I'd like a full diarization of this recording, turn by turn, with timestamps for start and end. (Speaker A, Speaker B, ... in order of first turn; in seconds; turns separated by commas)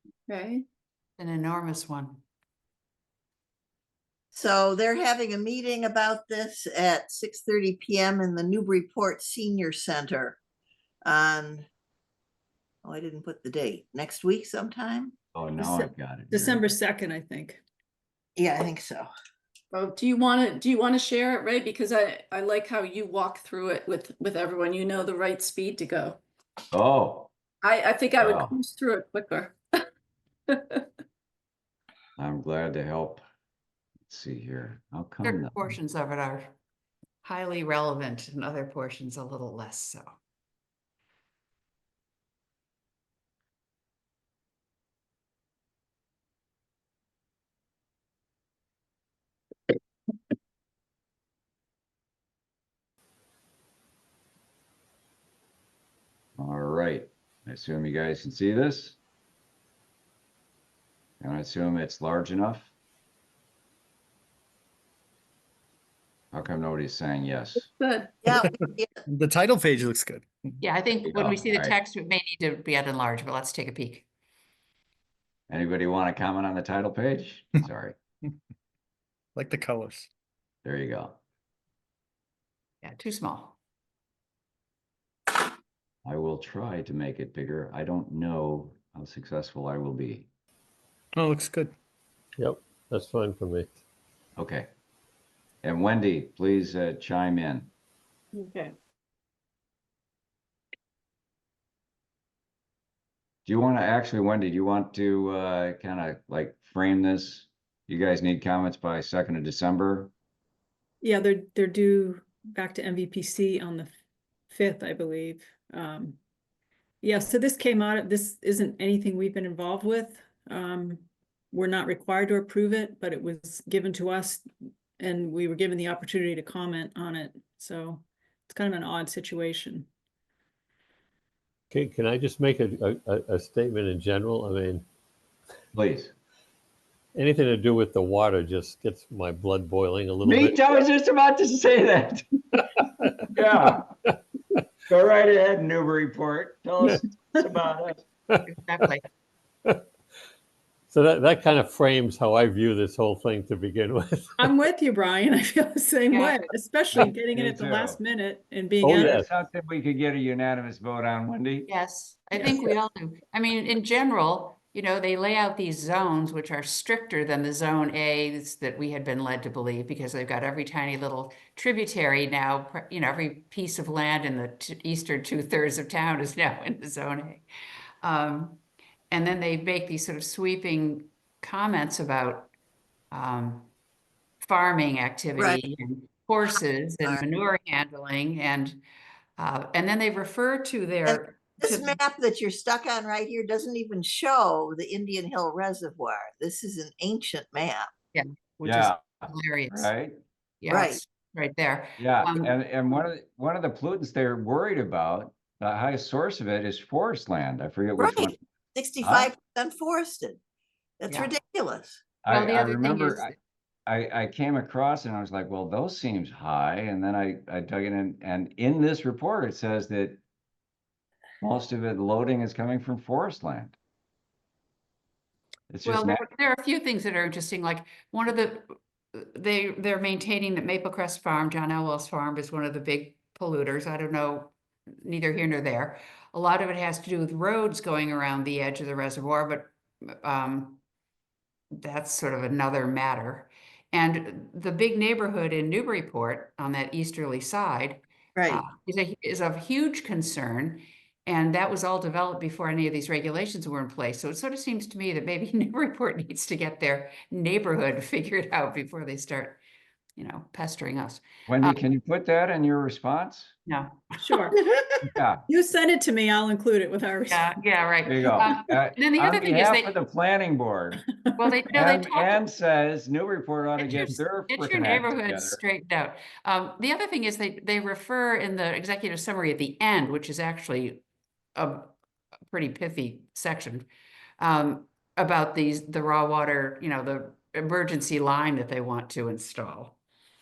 Speaker A: 0.3-0.6, Speaker B: 1.2-2.2, Speaker C: 4.3-10.4, Speaker C: 11.0-11.7, Speaker C: 12.8-15.1, Speaker D: 15.3-16.7, Speaker E: 15.6-17.6, Speaker C: 18.4-19.1, Speaker A: 19.7-26.2, Speaker D: 26.7-27.3, Speaker A: 27.6-29.8, Speaker D: 28.2-28.5, Speaker A: 30.5-30.8, Speaker D: 32.2-33.2, Speaker D: 34.1-35.7, Speaker B: 35.2-36.5, Speaker B: 37.2-40.0, Speaker D: 56.4-59.0, Speaker D: 61.2-62.7, Speaker D: 66.3-67.7, Speaker A: 67.8-68.1, Speaker C: 68.2-69.0, Speaker F: 69.1-70.3, Speaker B: 70.6-74.0, Speaker D: 71.0-71.7, Speaker D: 75.5-77.9, Speaker F: 79.3-80.1, Speaker D: 80.6-81.2, Speaker B: 82.8-83.6, Speaker D: 86.0-90.3, Speaker F: 91.2-91.7, Speaker G: 92.4-93.8, Speaker D: 94.4-94.7, Speaker D: 95.6-97.7, Speaker A: 98.3-98.7, Speaker D: 103.5-110.1, Speaker E: 111.0-113.9, Speaker E: 114.5-116.2, Speaker E: 117.0-124.5, Speaker E: 125.0-129.9, Speaker G: 131.7-134.8, Speaker D: 135.7-136.1, Speaker G: 137.1-140.8, Speaker D: 140.2-142.6, Speaker D: 143.3-143.9, Speaker D: 144.9-148.0, Speaker B: 148.3-149.0, Speaker G: 150.9-154.3, Speaker E: 154.4-159.2, Speaker B: 156.1-156.5, Speaker D: 156.9-158.0, Speaker G: 158.8-159.2, Speaker D: 158.9-161.7, Speaker B: 161.7-177.4, Speaker E: 162.3-162.6, Speaker B: 178.0-182.5, Speaker B: 183.1-183.7, Speaker B: 184.4-188.8, Speaker B: 189.4-192.0, Speaker C: 191.1-197.9, Speaker B: 198.1-199.9, Speaker D: 198.6-200.2, Speaker B: 200.6-202.5, Speaker C: 200.7-201.0, Speaker D: 202.0-208.4, Speaker C: 208.0-210.4, Speaker D: 209.0-209.3, Speaker C: 211.0-212.0, Speaker B: 211.1-211.3, Speaker D: 212.2-213.3, Speaker B: 212.3-213.3, Speaker D: 213.9-220.2, Speaker D: 221.4-223.7, Speaker D: 225.7-226.2, Speaker B: 225.8-240.8, Speaker B: 241.7-259.6, Speaker C: 248.4-248.6, Speaker B: 260.2-261.8, Speaker D: 261.5-263.5, Speaker B: 263.7-264.5, Speaker E: 264.2-267.5, Speaker D: 265.1-265.4, Speaker B: 267.3-269.9, Speaker D: 268.0-271.0, Speaker E: 271.3-271.6, Speaker B: 271.4-272.4, Speaker D: 271.7-275.6, Speaker B: 274.5-281.0, Speaker B: 281.6-281.9, Speaker B: 282.5-283.9, Speaker B: 284.4-290.0